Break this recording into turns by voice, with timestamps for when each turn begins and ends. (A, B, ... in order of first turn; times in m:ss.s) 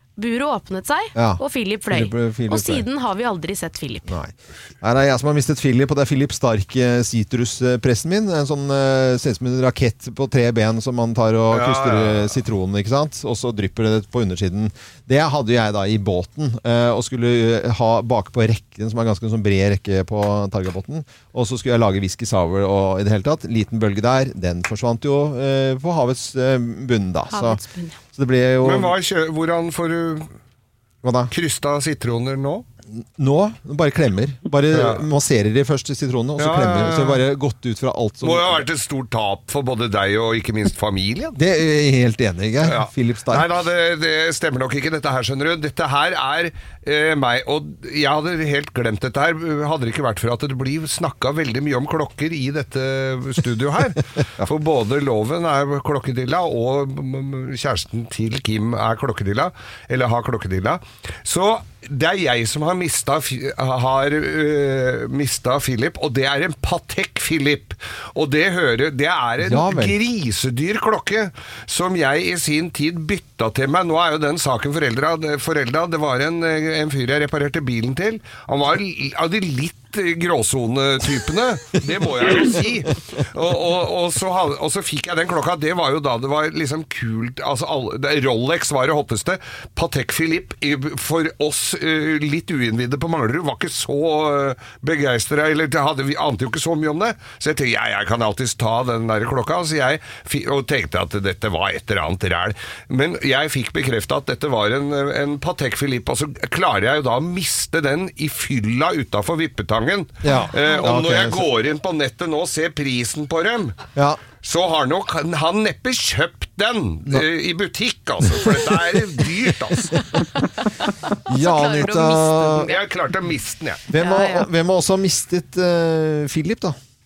0:00.2-0:04.1 A
0:01.2-0:02.8 B
0:04.1-0:27.6 B
0:11.5-0:12.4 C
0:27.3-0:28.0 A
0:28.1-0:28.9 B
0:28.6-0:30.3 C
0:31.0-0:31.3 B
0:31.3-0:32.6 C
0:33.0-0:38.7 B
0:34.7-0:35.1 C
0:36.4-0:37.2 C
0:38.2-0:41.4 C
0:41.4-0:43.5 B
0:42.6-1:53.8 C
1:09.4-1:10.0 B
1:50.2-1:51.5 B
1:54.0-1:54.2 B
1:54.4-2:00.0 C
1:58.3-1:58.8 B
2:01.3-2:02.7 B
2:01.3-2:02.8 A
2:02.6-2:03.8 C
2:03.9-2:06.8 B
2:04.0-2:04.5 A